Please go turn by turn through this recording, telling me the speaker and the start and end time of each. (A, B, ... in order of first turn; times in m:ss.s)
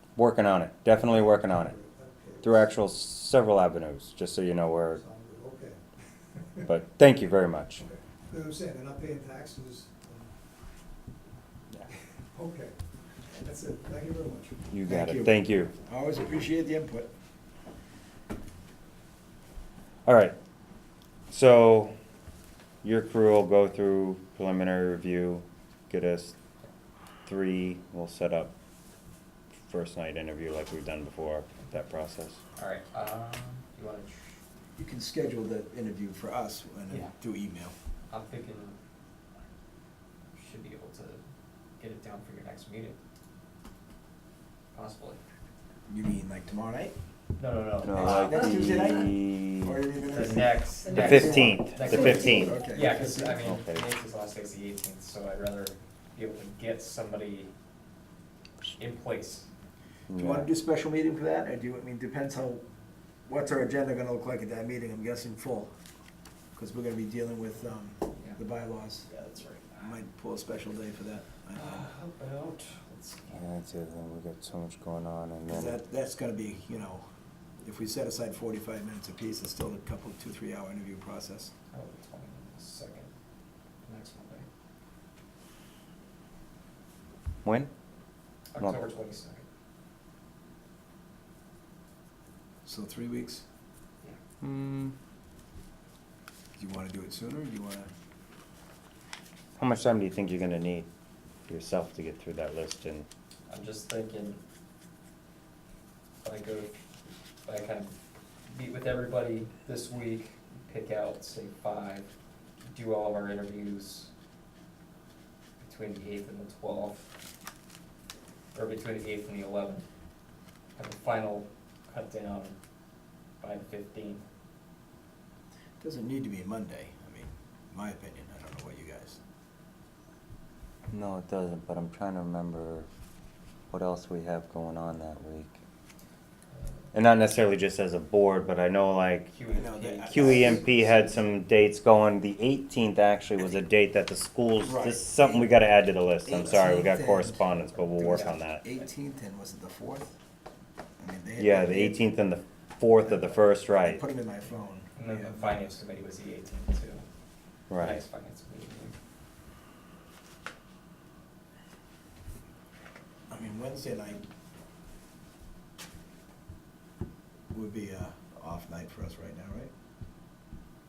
0:00.2-0:01.7 A
0:01.1-0:02.7 B
0:02.4-0:05.0 A
0:04.9-0:05.8 B
0:06.6-0:07.8 A
0:07.8-0:10.3 B
0:12.3-0:12.7 B
0:13.3-0:14.6 B
0:14.7-0:15.7 A
0:14.8-0:17.1 C
0:20.0-0:20.3 A
0:21.3-0:21.9 A
0:22.8-0:26.3 A
0:27.2-0:28.5 A
0:29.6-0:32.4 A
0:32.6-0:34.4 D
0:34.8-0:37.7 C
0:38.1-0:38.8 D
0:40.3-0:41.2 D
0:41.8-0:43.0 D
0:44.7-0:45.2 D
0:45.9-0:47.0 C
0:47.4-0:48.7 D
0:47.8-0:49.8 A
0:48.0-0:53.4 C
0:50.0-0:57.5 D
0:50.9-0:52.6 A
0:53.4-0:53.8 A
0:58.8-0:59.5 D
1:00.1-1:00.5 A
1:00.1-1:02.6 C
1:03.3-1:05.7 C
1:06.5-1:09.1 C
1:08.1-1:08.4 D
1:09.1-1:09.8 D
1:09.8-1:11.9 C
1:11.5-1:13.4 D
1:13.3-1:15.8 A
1:15.5-1:17.0 C
1:17.6-1:21.5 C
1:21.7-1:23.1 D
1:23.8-1:24.5 D
1:27.4-1:27.7 A
1:28.5-1:29.4 D
1:32.6-1:33.4 C
1:34.4-1:34.9 A
1:36.6-1:37.9 C
1:39.6-1:40.9 A
1:41.5-1:43.1 A
1:43.5-1:44.4 D
1:46.2-1:46.8 D
1:47.4-1:48.0 D
1:48.5-1:52.1 D
1:52.7-1:54.1 D
1:55.6-1:57.1 D
1:58.5-1:59.8 D
2:00.8-2:02.6 D
2:03.4-2:04.2 D
2:05.8-2:09.2 C
2:10.9-2:12.9 A
2:13.7-2:15.6 A
2:16.6-2:16.8 D
2:16.9-2:19.3 A
2:19.3-2:20.6 D
2:19.5-2:21.3 C
2:20.1-2:28.6 A
2:24.6-2:25.6 C
2:26.2-2:27.4 C
2:27.7-2:28.9 D
2:28.2-2:30.1 C
2:31.0-2:32.1 C
2:31.4-2:34.0 A
2:33.7-2:35.8 C
2:35.0-2:37.0 D
2:37.7-2:38.0 A
2:37.7-2:39.0 D
2:43.3-2:44.2 C
2:47.5-2:49.7 C